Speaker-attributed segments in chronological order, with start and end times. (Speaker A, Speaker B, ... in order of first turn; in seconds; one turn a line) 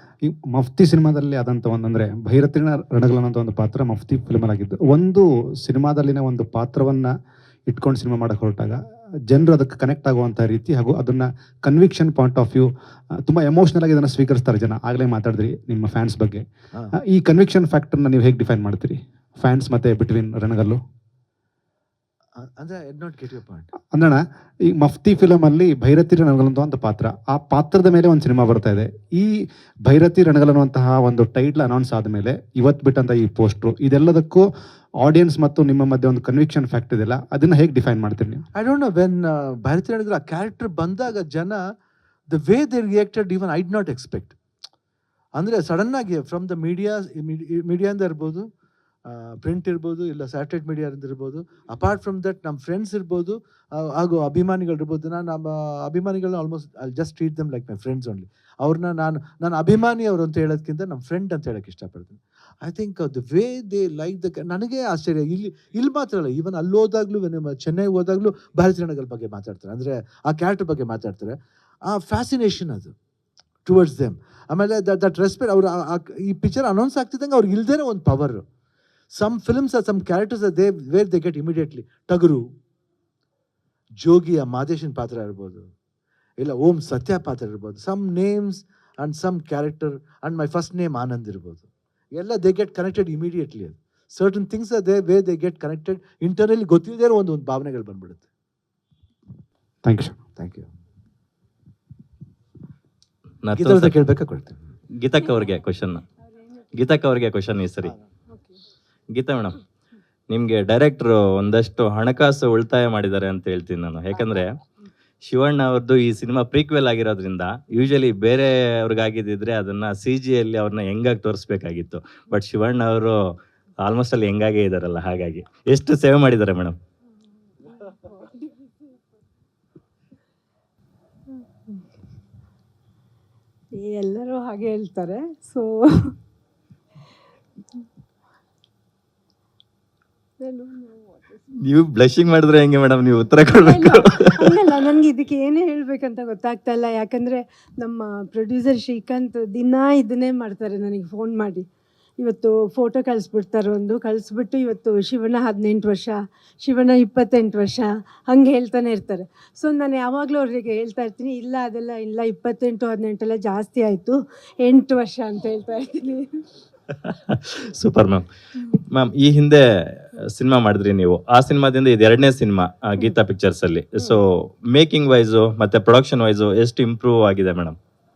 Speaker A: 0.3-7.1
Speaker A: 7.7-8.8
Speaker A: 9.3-12.7
Speaker A: 13.2-16.4
Speaker A: 17.1-20.8
Speaker B: 22.4-23.7
Speaker A: 23.9-24.2
Speaker A: 24.8-29.3
Speaker A: 29.9-34.4
Speaker A: 35.0-38.5
Speaker B: 38.5-41.6
Speaker B: 42.3-44.4
Speaker B: 45.4-48.5
Speaker B: 49.1-72.9
Speaker B: 73.7-78.4
Speaker B: 79.1-82.5
Speaker B: 84.0-85.7
Speaker B: 86.4-98.3
Speaker A: 99.8-100.2
Speaker B: 100.4-100.7
Speaker C: 103.4-103.9
Speaker B: 103.5-104.6
Speaker C: 105.0-106.1
Speaker C: 106.7-107.9
Speaker D: 108.3-108.6
Speaker C: 109.1-109.6
Speaker C: 110.3-114.6
Speaker C: 115.2-126.8
Speaker D: 127.7-128.7
Speaker D: 131.3-131.8
Speaker D: 133.8-136.1
Speaker D: 140.4-141.4
Speaker C: 141.6-144.8
Speaker D: 143.5-151.7
Speaker D: 152.2-166.4
Speaker C: 167.1-168.2
Speaker C: 168.9-177.8